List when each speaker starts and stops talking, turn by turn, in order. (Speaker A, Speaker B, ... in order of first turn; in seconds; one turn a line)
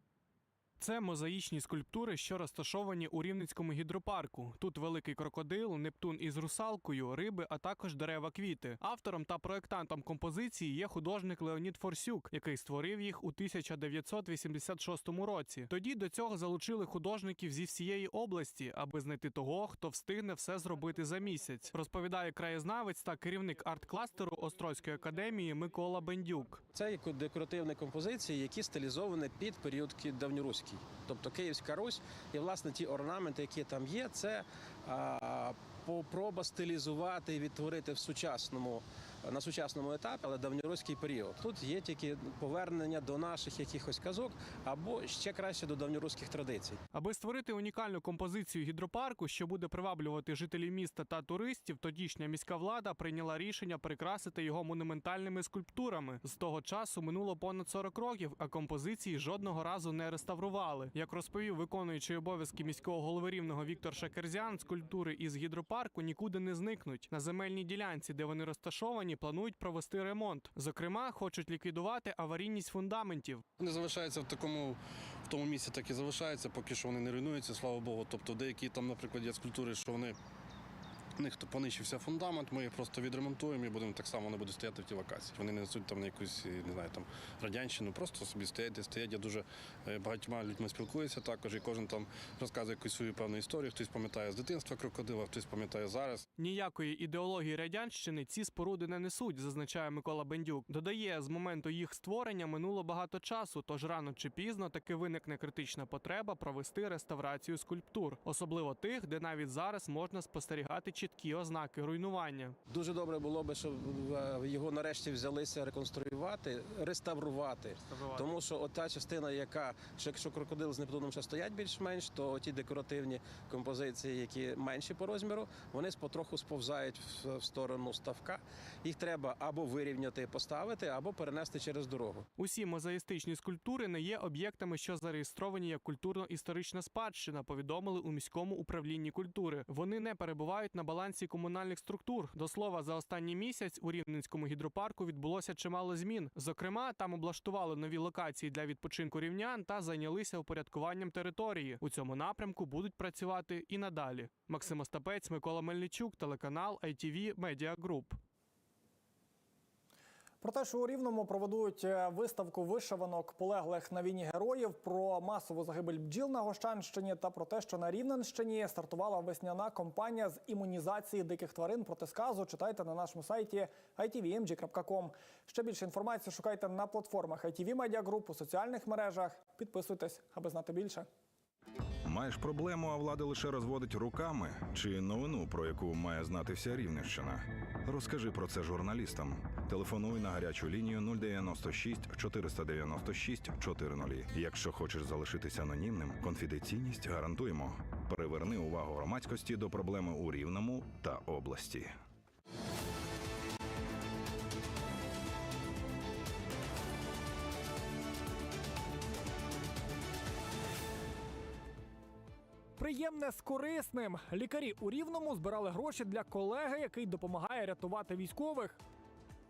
Speaker A: 0.8-26.6
Speaker B: 26.7-46.8
Speaker A: 46.9-73.5
Speaker C: 73.6-80.2
Speaker C: 81.2-96.3
Speaker A: 96.3-112.6
Speaker B: 112.7-132.2
Speaker A: 132.4-158.2
Speaker D: 160.4-181.1
Speaker E: 182.1-201.9
Speaker D: 212.8-218.8